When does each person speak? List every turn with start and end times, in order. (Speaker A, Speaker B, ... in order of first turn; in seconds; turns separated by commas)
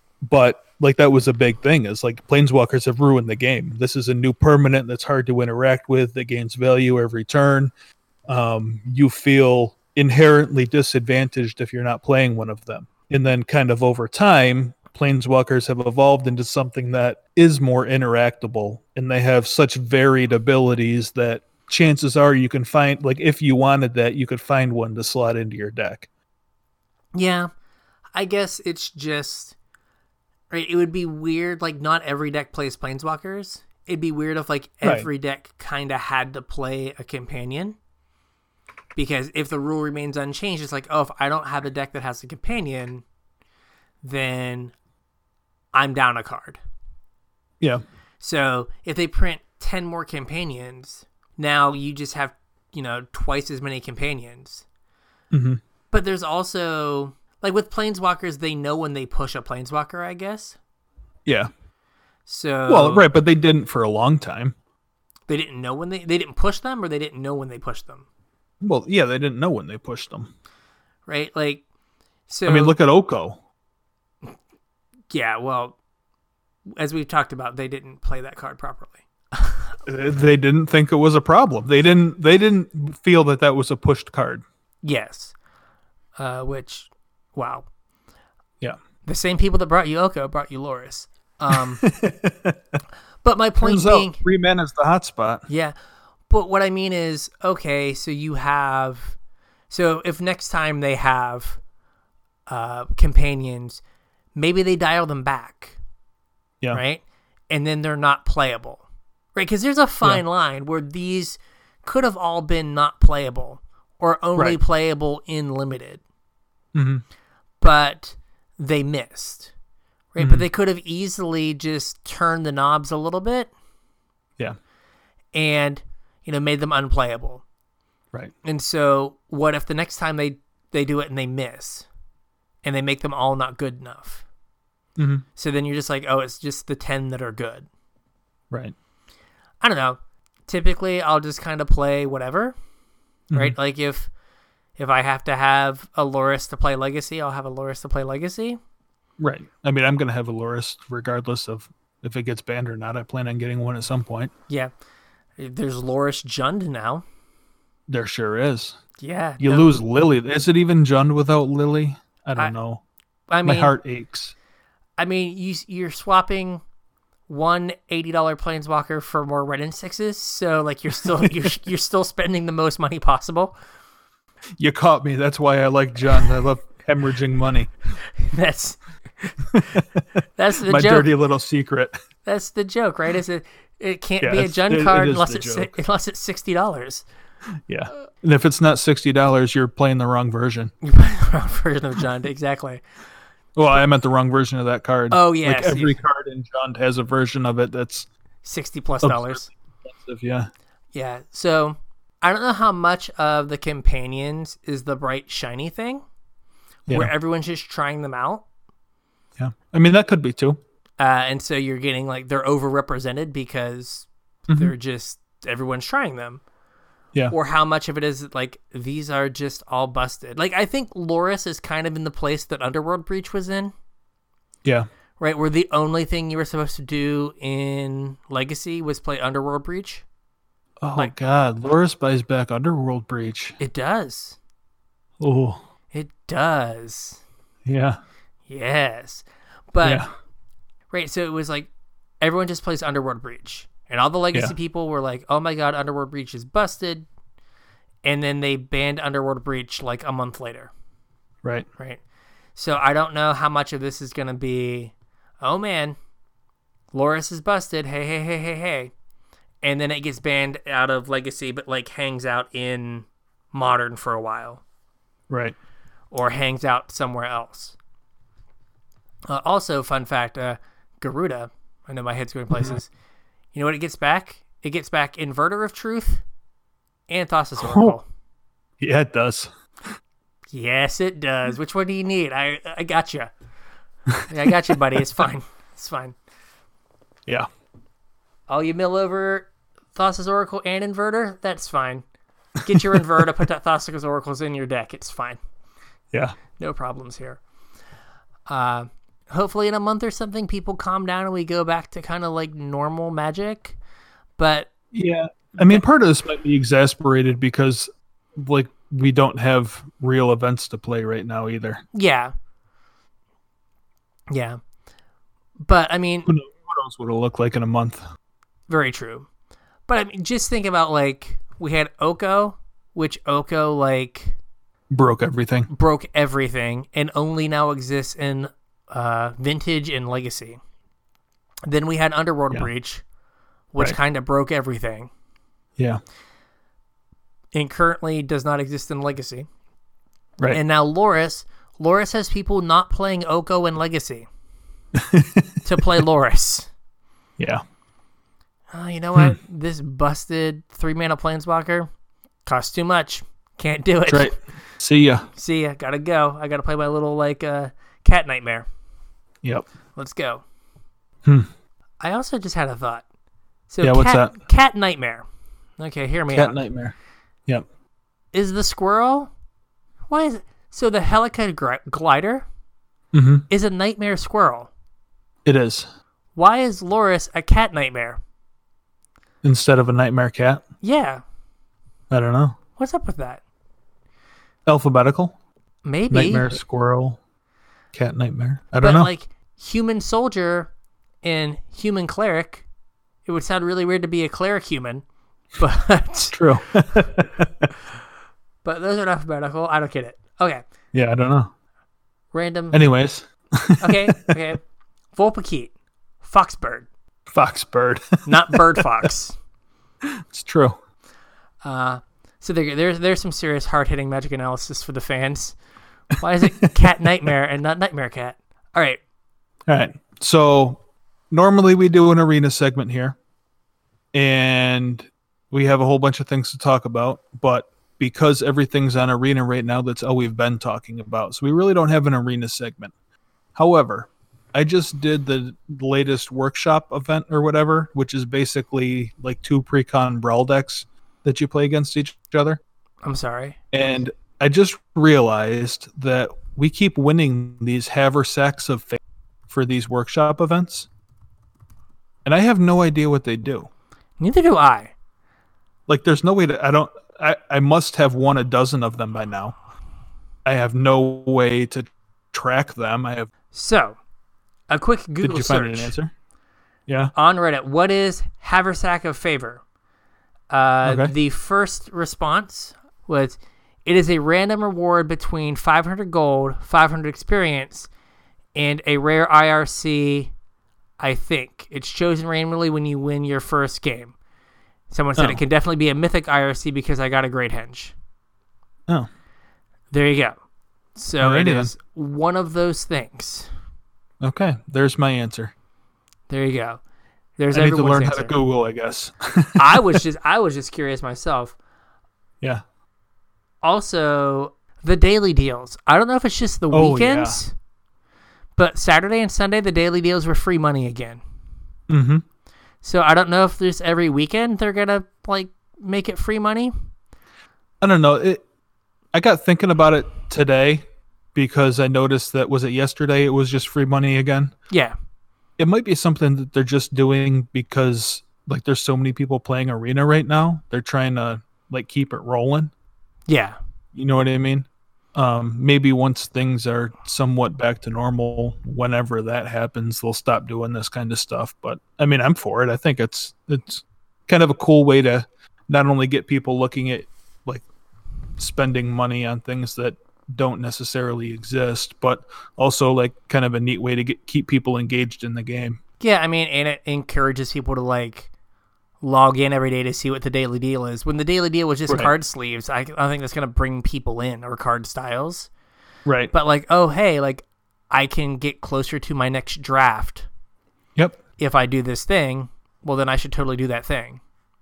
Speaker A: 0.2-7.7, Speaker A: 8.3-26.1, Speaker B: 27.1-27.5, Speaker B: 28.1-29.6, Speaker B: 30.5-37.8, Speaker A: 34.8-35.1, Speaker B: 38.9-43.0, Speaker B: 44.0-44.7, Speaker B: 45.7-46.6, Speaker B: 48.2-54.6, Speaker A: 55.3-55.6, Speaker B: 55.9-60.6, Speaker B: 62.3-63.1, Speaker A: 62.7-64.5, Speaker B: 65.3-68.0, Speaker A: 68.6-70.3, Speaker B: 71.1-71.6, Speaker B: 72.3-72.8, Speaker A: 72.5-73.4, Speaker B: 75.1-75.8, Speaker B: 76.8-79.7, Speaker A: 79.8-84.4, Speaker B: 84.8-85.3, Speaker B: 86.2-87.7, Speaker B: 89.0-91.8, Speaker A: 91.5-92.6, Speaker B: 93.2-94.2, Speaker A: 93.6-95.5, Speaker B: 95.5-95.7, Speaker B: 96.3-99.2, Speaker B: 99.7-101.6, Speaker B: 102.5-103.8, Speaker B: 104.3-105.8, Speaker B: 106.7-108.8, Speaker B: 109.3-116.0, Speaker A: 116.7-117.0, Speaker B: 117.6-119.5, Speaker B: 120.1-123.5, Speaker A: 120.2-120.4, Speaker B: 125.3-127.4, Speaker B: 128.4-131.8, Speaker B: 132.6-134.2, Speaker A: 135.0-135.2, Speaker B: 135.3-137.7, Speaker B: 139.6-142.5, Speaker B: 143.3-144.1, Speaker B: 144.8-148.6, Speaker A: 149.2-154.3, Speaker B: 155.4-157.0, Speaker A: 157.9-158.8, Speaker B: 159.0-159.7, Speaker A: 159.4-162.8, Speaker B: 163.3-163.8, Speaker A: 163.4-164.3, Speaker B: 165.0-166.6, Speaker B: 167.3-173.5, Speaker A: 174.6-177.7, Speaker B: 178.2-179.5, Speaker A: 179.5-181.9, Speaker B: 180.4-181.1, Speaker B: 182.2-187.0, Speaker A: 184.2-185.7, Speaker A: 187.7-190.7, Speaker B: 190.8-192.8, Speaker A: 193.6-198.1, Speaker B: 195.1-196.0, Speaker B: 198.4-199.4, Speaker A: 199.0-200.5, Speaker B: 200.9-206.0, Speaker B: 206.9-208.4, Speaker A: 209.4-210.6, Speaker B: 211.0-216.4, Speaker B: 217.3-223.7, Speaker B: 225.2-230.0, Speaker A: 230.8-233.6, Speaker B: 233.6-234.4, Speaker A: 235.2-235.6, Speaker B: 235.9-237.2, Speaker A: 237.7-238.0, Speaker B: 238.5-240.0, Speaker B: 240.9-241.7, Speaker B: 242.2-247.1, Speaker B: 248.0-250.7, Speaker B: 252.6-255.9, Speaker B: 256.9-258.9, Speaker B: 259.6-264.6, Speaker A: 265.3-265.5, Speaker B: 266.1-267.8, Speaker B: 269.3-272.9, Speaker B: 273.5-276.2, Speaker B: 277.1-278.0, Speaker A: 277.6-277.9, Speaker A: 278.8-279.5, Speaker B: 280.5-283.3, Speaker B: 284.3-286.1, Speaker B: 288.5-292.0, Speaker B: 292.6-295.4, Speaker A: 296.1-296.4, Speaker B: 296.6-297.4, Speaker B: 298.5-303.8, Speaker B: 304.4-304.7, Speaker A: 304.9-311.8, Speaker B: 305.5-305.8, Speaker B: 311.9-312.3, Speaker B: 314.3-314.6, Speaker B: 315.6-316.3, Speaker A: 316.2-318.0, Speaker B: 318.7-319.3, Speaker B: 319.9-324.4, Speaker A: 324.9-325.7, Speaker B: 325.7-330.6, Speaker B: 331.7-333.0, Speaker B: 333.7-335.1, Speaker B: 337.5-339.5, Speaker B: 340.5-344.3, Speaker A: 344.9-345.6, Speaker B: 345.6-346.7, Speaker A: 347.4-347.6, Speaker B: 348.7-351.9, Speaker B: 352.4-354.4, Speaker A: 354.1-355.3, Speaker B: 355.4-358.6, Speaker B: 359.9-360.4, Speaker B: 362.0-363.0, Speaker B: 363.7-365.2, Speaker A: 363.8-364.3, Speaker B: 365.8-366.6, Speaker A: 366.3-366.9, Speaker B: 368.3-369.3, Speaker B: 370.1-372.4, Speaker A: 373.1-373.4, Speaker B: 373.5-374.7, Speaker A: 375.4-375.9, Speaker B: 376.4-378.2, Speaker A: 379.4-380.6, Speaker B: 380.8-381.2, Speaker A: 382.1-382.6, Speaker B: 382.8-383.4, Speaker A: 384.6-385.3, Speaker B: 385.8-386.5, Speaker A: 386.1-387.2, Speaker A: 387.9-389.1, Speaker B: 388.8-390.7, Speaker B: 391.2-392.6, Speaker B: 393.2-395.0, Speaker B: 395.6-396.5, Speaker A: 396.3-397.7, Speaker B: 398.6-400.6, Speaker A: 400.9-401.5, Speaker B: 402.3-402.8, Speaker A: 402.7-404.3, Speaker B: 403.8-404.6, Speaker B: 405.1-406.9, Speaker A: 407.3-408.8, Speaker B: 408.2-409.4, Speaker A: 410.0-410.8, Speaker B: 411.6-415.6, Speaker B: 416.1-419.0, Speaker A: 419.7-420.8, Speaker A: 421.3-423.2, Speaker A: 424.1-432.9, Speaker A: 433.5-442.6, Speaker B: 443.0-443.6, Speaker A: 443.7-450.9, Speaker A: 452.2-453.7, Speaker B: 454.2-454.9, Speaker A: 455.9-459.5, Speaker A: 460.4-463.3, Speaker B: 463.5-463.9, Speaker B: 464.7-465.9, Speaker A: 465.2-466.1, Speaker A: 466.9-467.1, Speaker B: 467.1-469.6, Speaker B: 470.5-477.9, Speaker A: 470.8-471.1, Speaker B: 478.5-480.3, Speaker B: 481.0-484.1, Speaker B: 484.9-487.9, Speaker B: 489.9-490.3, Speaker B: 490.9-493.5, Speaker A: 491.2-491.7, Speaker A: 494.2-495.5, Speaker B: 496.3-496.8, Speaker B: 497.4-498.3, Speaker A: 497.5-500.0, Speaker B: 499.6-501.5, Speaker B: 503.6-507.5, Speaker A: 506.7-507.4, Speaker B: 508.6-511.2, Speaker A: 511.9-512.2, Speaker B: 512.8-516.7, Speaker A: 517.8-518.4, Speaker A: 519.1-520.8, Speaker A: 521.3-524.5, Speaker B: 524.7-524.9, Speaker A: 525.6-532.7, Speaker B: 533.3-533.6, Speaker A: 533.9-547.6, Speaker A: 548.4-555.8, Speaker B: 556.0-558.3, Speaker B: 559.0-565.5, Speaker A: 566.0-566.3, Speaker B: 566.3-570.3, Speaker B: 571.4-574.2